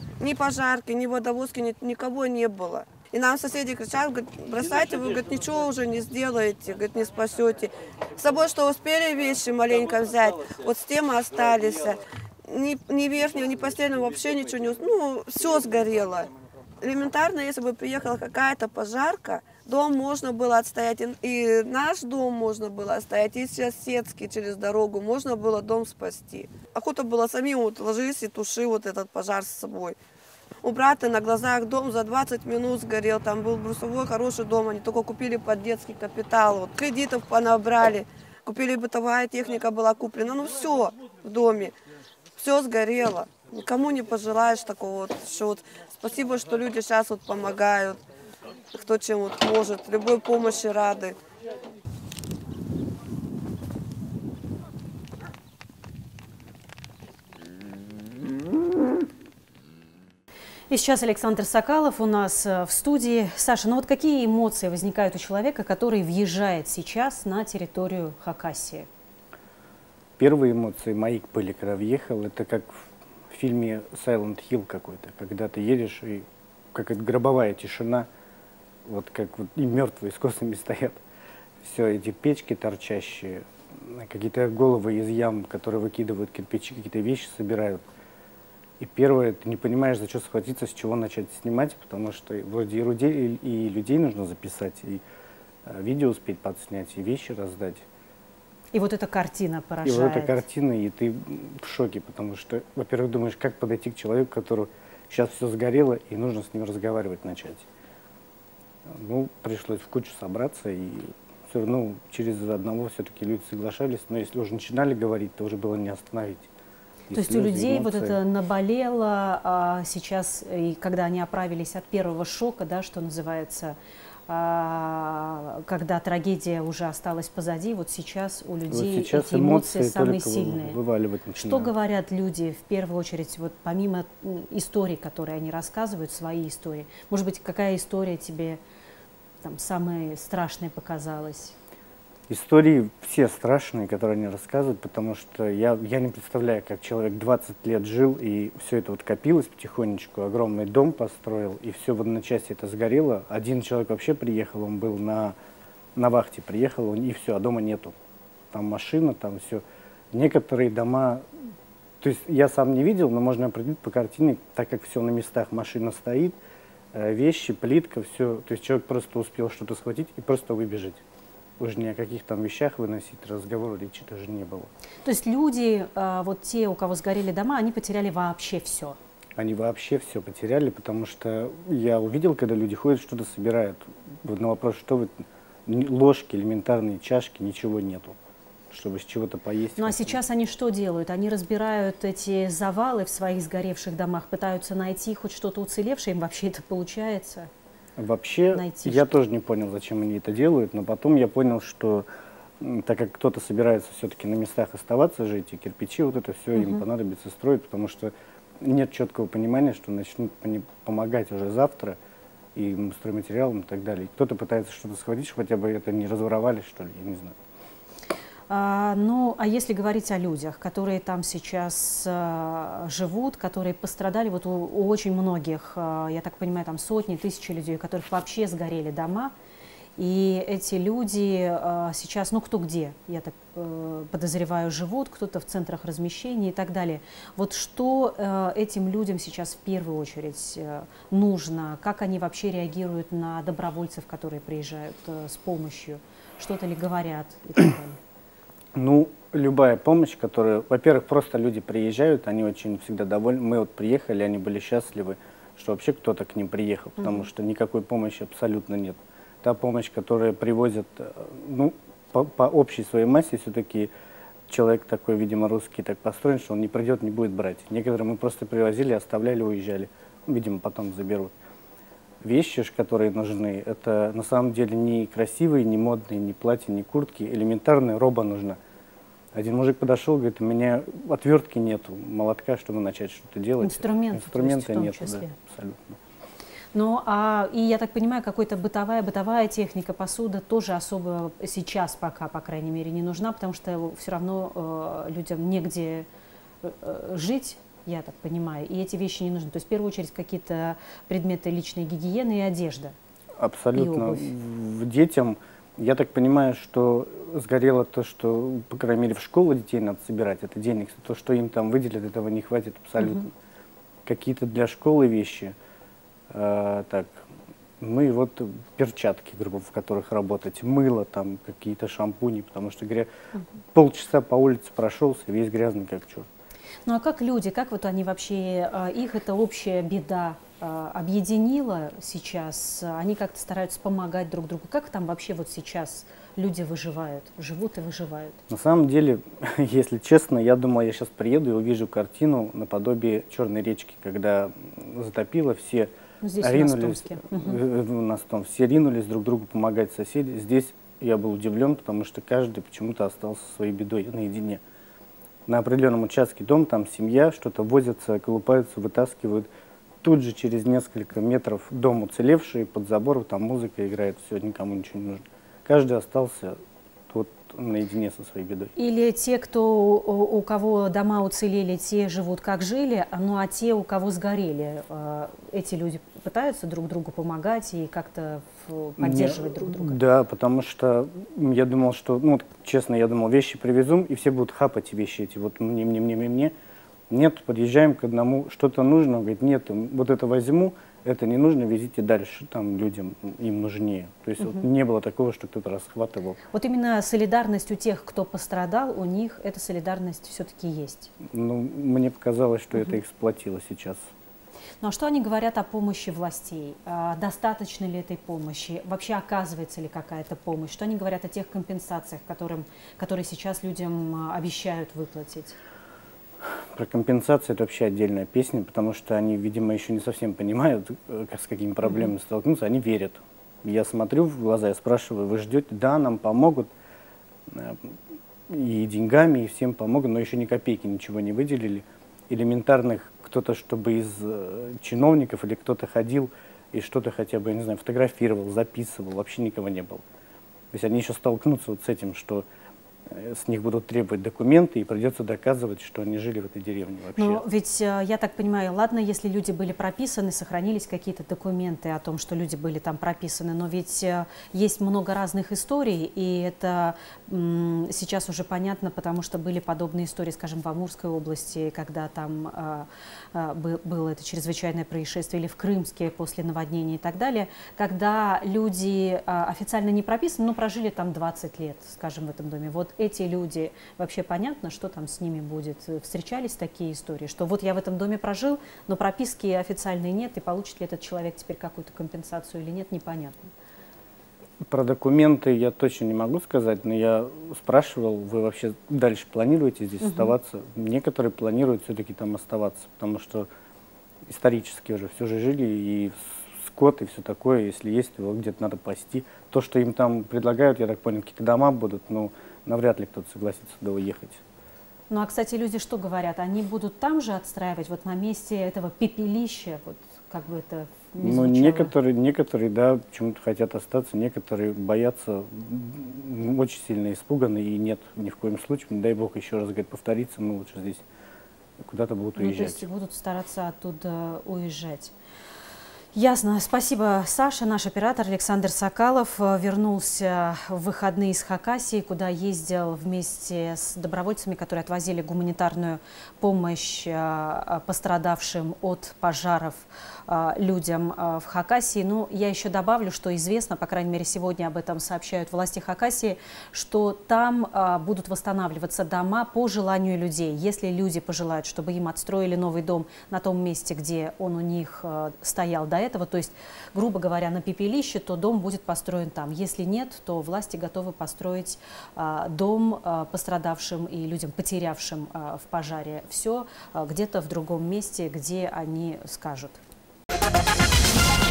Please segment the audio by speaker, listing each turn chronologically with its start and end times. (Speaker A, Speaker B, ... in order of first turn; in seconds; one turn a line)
Speaker A: 0.2-30.0
Speaker A: 30.6-41.8
Speaker A: 42.4-48.0
Speaker A: 48.7-51.2
Speaker B: 60.7-68.9
Speaker C: 70.2-78.1
Speaker C: 78.8-81.0
Speaker C: 81.6-87.8
Speaker C: 88.8-95.0
Speaker C: 95.7-97.8
Speaker B: 98.7-100.4
Speaker C: 99.8-107.7
Speaker C: 108.9-116.5
Speaker C: 117.1-118.2
Speaker B: 117.1-123.8
Speaker B: 124.3-130.8
Speaker C: 128.7-131.7
Speaker B: 131.3-138.6
Speaker B: 139.4-141.6
Speaker C: 142.3-155.3
Speaker C: 155.9-157.9
Speaker C: 158.5-161.2
Speaker C: 162.0-166.3
Speaker C: 166.9-171.0
Speaker C: 171.6-174.7
Speaker B: 175.0-179.0
Speaker C: 179.4-188.2
Speaker C: 188.7-190.2
Speaker B: 189.8-197.5
Speaker C: 198.0-202.1
Speaker B: 198.5-199.2
Speaker C: 202.6-212.0
Speaker B: 206.5-206.8
Speaker C: 212.5-217.3
Speaker B: 218.5-229.3
Speaker B: 230.0-248.0
Speaker C: 248.7-263.9
Speaker B: 257.0-257.2
Speaker C: 264.5-271.3
Speaker C: 272.2-278.6
Speaker C: 279.3-286.0
Speaker B: 283.6-285.3
Speaker B: 286.7-296.1
Speaker B: 296.6-302.9
Speaker C: 303.4-313.3
Speaker B: 303.7-304.3
Speaker C: 314.1-315.5
Speaker C: 316.3-317.2
Speaker C: 317.8-323.1
Speaker C: 323.7-326.3
Speaker B: 326.9-338.4
Speaker C: 338.5-354.6
Speaker B: 346.2-347.6
Speaker C: 355.5-359.5
Speaker C: 360.0-366.6
Speaker C: 367.1-368.7
Speaker B: 368.8-380.0
Speaker C: 379.0-386.5
Speaker C: 387.1-396.4
Speaker B: 394.4-394.7
Speaker B: 396.5-401.1
Speaker C: 401.2-404.1
Speaker B: 404.8-415.6
Speaker C: 416.7-426.7
Speaker C: 427.5-427.9
Speaker C: 428.5-440.0
Speaker C: 440.7-442.4
Speaker C: 443.1-447.4
Speaker B: 447.2-483.5
Speaker C: 484.7-493.5
Speaker B: 490.0-490.3
Speaker C: 494.2-504.4
Speaker B: 505.1-511.9
Speaker C: 511.2-521.0
Speaker C: 521.8-522.8
Speaker B: 522.4-525.1
Speaker B: 526.1-569.8